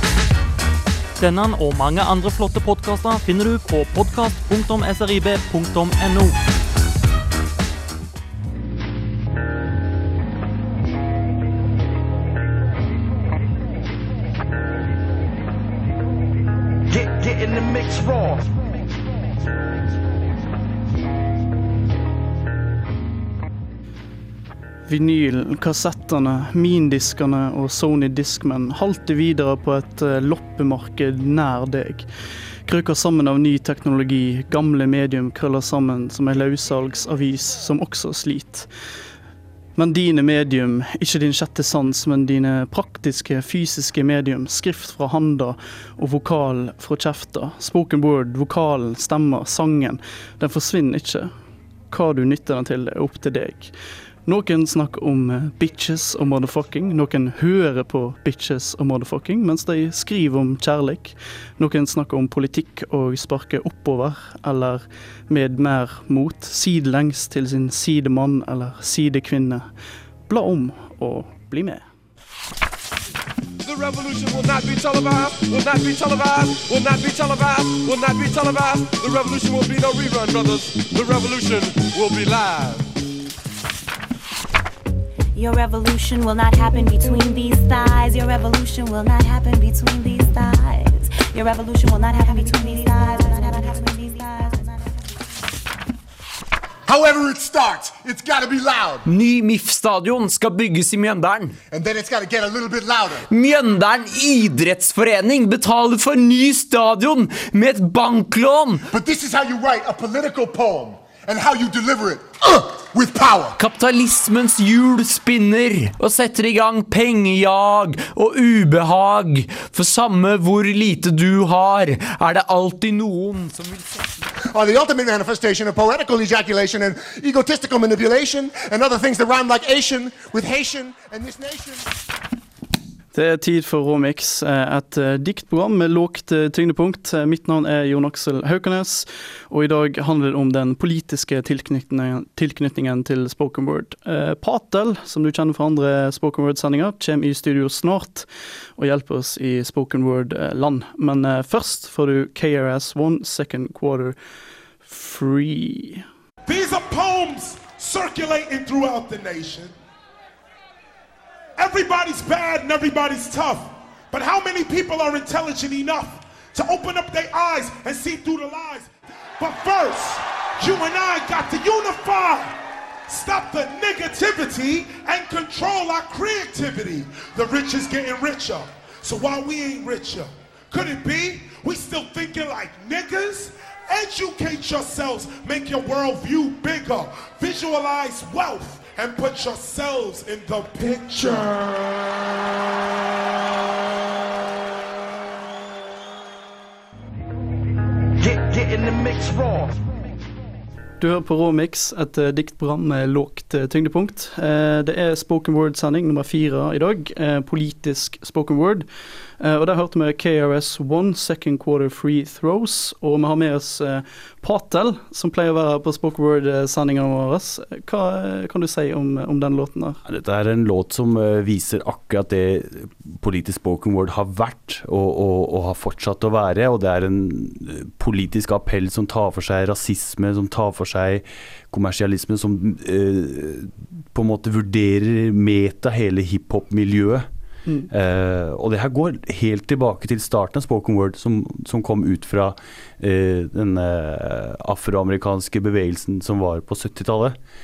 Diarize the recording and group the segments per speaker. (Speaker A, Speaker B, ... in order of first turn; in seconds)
Speaker A: 1.2-6.4
Speaker B: 16.9-18.5, 198.2-199.7
Speaker C: 24.9-32.1, 32.6-38.7, 39.8-51.3, 51.9-53.7, 54.2-69.7, 70.3-71.8, 133.1-154.2, 154.8-156.0, 201.0-208.9, 209.4-220.0
Speaker D: 73.6-82.9
Speaker E: 85.3-95.0
Speaker F: 96.8-99.0, 101.7-103.2, 108.9-113.5, 124.5-131.9
Speaker G: 99.0-101.6, 103.3-108.8, 113.6-124.2
Speaker H: 156.4-159.7, 161.6-172.6, 173.1-191.5
Speaker I: 220.0-237.3, 237.9-247.4